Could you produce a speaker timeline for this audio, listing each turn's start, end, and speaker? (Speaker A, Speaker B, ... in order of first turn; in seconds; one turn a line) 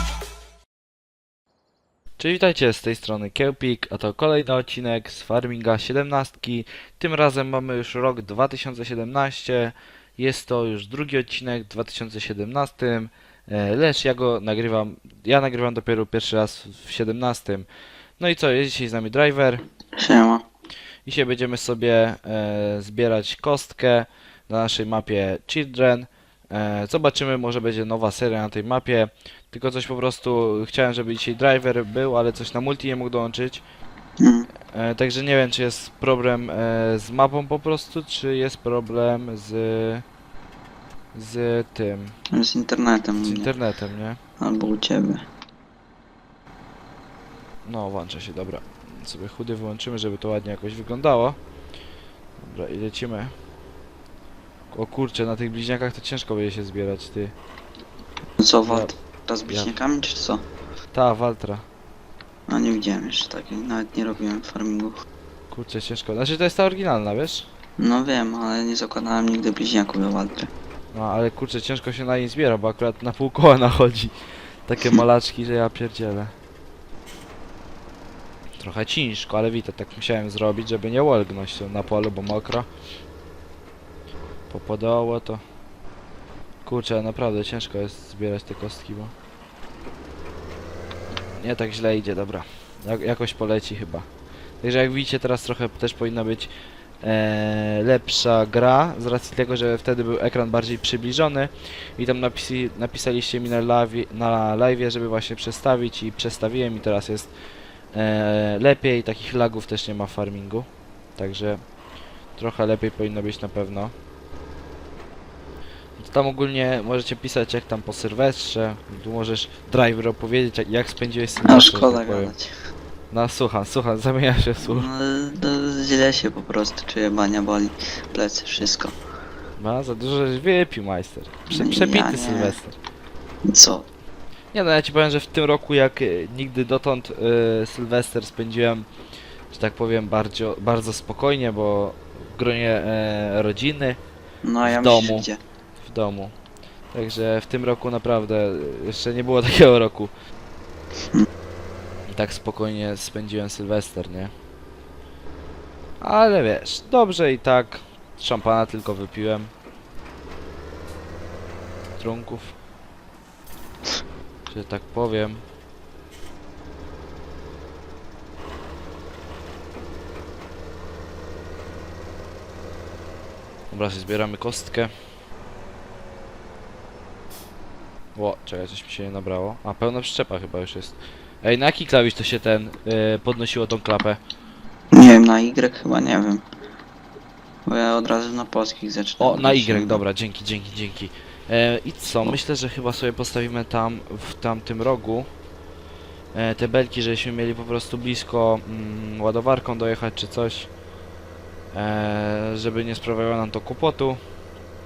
Speaker A: 2.2-17.7
Speaker A: 18.2-19.6
Speaker B: 20.0-20.4
Speaker A: 21.0-33.6
Speaker B: 34.2-34.5
Speaker A: 34.7-40.0
Speaker A: 41.1-42.1
Speaker B: 42.3-43.5
Speaker A: 43.2-44.2
Speaker B: 44.4-45.2
Speaker A: 47.6-51.4
Speaker A: 52.4-53.3
Speaker A: 54.7-57.3
Speaker B: 58.4-60.4
Speaker A: 58.6-58.9
Speaker A: 60.9-61.6
Speaker B: 62.5-64.9
Speaker A: 65.5-67.5
Speaker B: 67.8-70.5
Speaker A: 70.9-76.3
Speaker A: 78.6-82.7
Speaker A: 84.5-85.4
Speaker A: 86.6-89.1
Speaker A: 91.4-94.1
Speaker A: 94.6-107.3
Speaker A: 107.9-111.6
Speaker A: 112.3-113.9
Speaker A: 116.0-122.3
Speaker B: 121.4-122.5
Speaker A: 123.1-124.9
Speaker B: 124.6-128.9
Speaker A: 129.6-132.8
Speaker B: 131.5-132.6
Speaker B: 133.4-133.8
Speaker A: 134.5-138.9
Speaker A: 139.5-144.0
Speaker B: 144.4-145.4
Speaker A: 144.6-145.3
Speaker A: 145.8-146.3
Speaker A: 146.9-150.1
Speaker A: 152.1-154.3
Speaker A: 156.0-159.5
Speaker A: 162.0-162.6
Speaker A: 164.5-165.4
Speaker A: 173.7-174.9
Speaker A: 178.1-184.2
Speaker B: 184.9-186.4
Speaker B: 187.7-190.0
Speaker A: 189.2-195.3
Speaker A: 196.3-200.7
Speaker A: 201.7-204.2